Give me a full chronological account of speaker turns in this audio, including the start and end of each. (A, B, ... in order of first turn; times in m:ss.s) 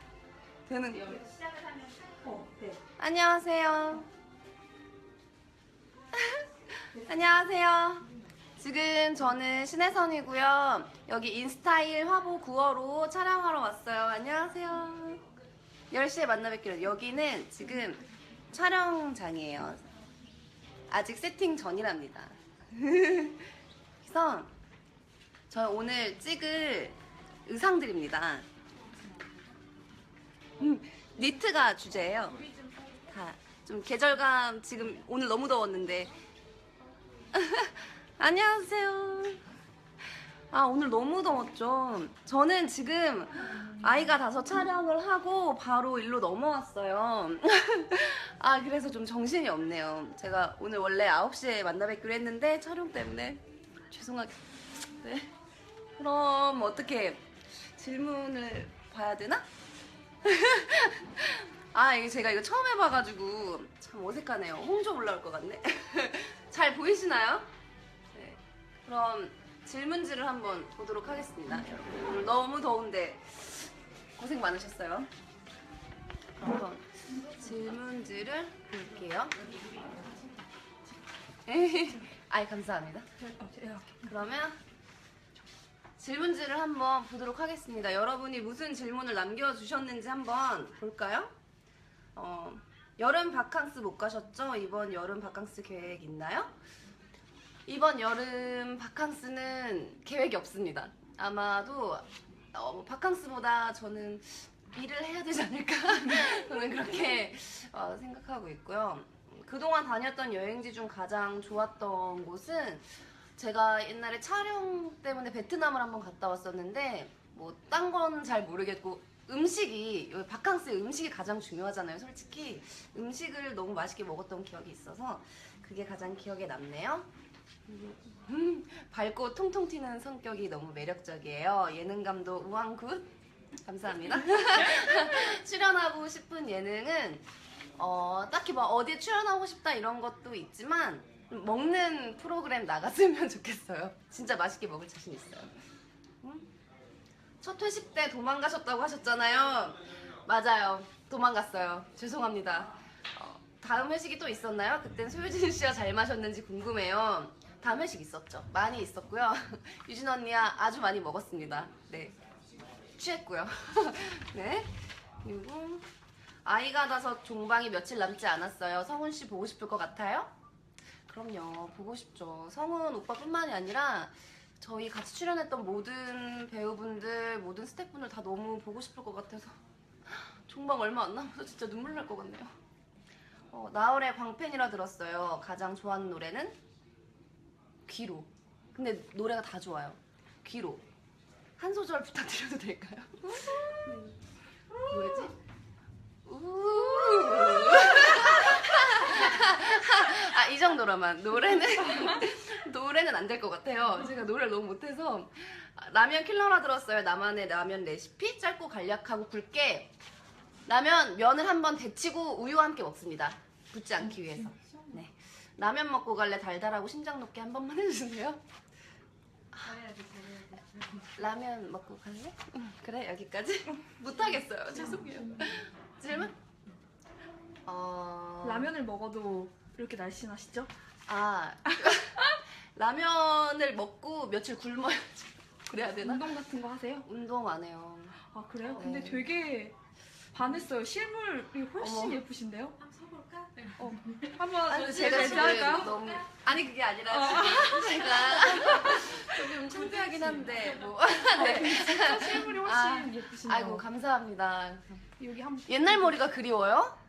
0:00.7-0:01.2 A
0:01.0-0:02.2 B
0:02.2-0:02.8 C
0:03.0-0:04.1 A
0:06.1-0:15.2 A
0:15.9-0:19.8 A
0:20.9-0:24.5 A
0:25.5-0:28.4 A
0:30.6-0:32.5 A
0:33.1-0:36.1 A
0:37.3-0:39.4 A
0:40.5-0:55.3 A
0:56.0-0:59.4 A
1:00.2-1:07.5 A
1:08.1-1:15.1 A
1:16.4-1:19.4 A
1:19.4-1:20.0 B
1:21.4-1:23.1 A
1:23.2-1:24.1 C
1:24.0-1:24.6 A
1:26.0-1:31.3 A
1:32.1-1:36.5 A
1:37.7-2:07.1 A
2:07.7-2:13.1 A
2:13.6-2:25.5 A
2:26.2-2:26.5 A
2:27.4-2:42.2 A
2:42.9-2:45.8 A
2:46.4-2:50.3 A
2:51.1-3:02.5 A
3:03.5-3:06.6 A
3:07.9-3:10.8 A
3:11.6-3:14.2 A
3:14.8-3:15.3 A
3:16.2-3:29.9 A
3:30.7-3:38.4 A
3:39.6-3:41.2 B
3:41.1-3:46.3 A
3:47.6-3:48.7 A
3:48.4-3:50.7 C
3:51.1-3:56.2 A
3:56.0-3:57.1 C
3:57.0-3:58.2 A
3:58.2-3:59.8 C
3:58.7-3:59.3 A
4:00.3-4:02.8 C
4:01.8-4:02.2 A
4:02.8-4:06.2 B
4:03.8-4:06.0 C
4:04.7-4:15.0 A
4:07.1-4:09.6 C
4:09.6-4:11.0 B
4:11.2-4:13.8 C
4:15.2-4:16.2 C
4:15.7-4:17.0 A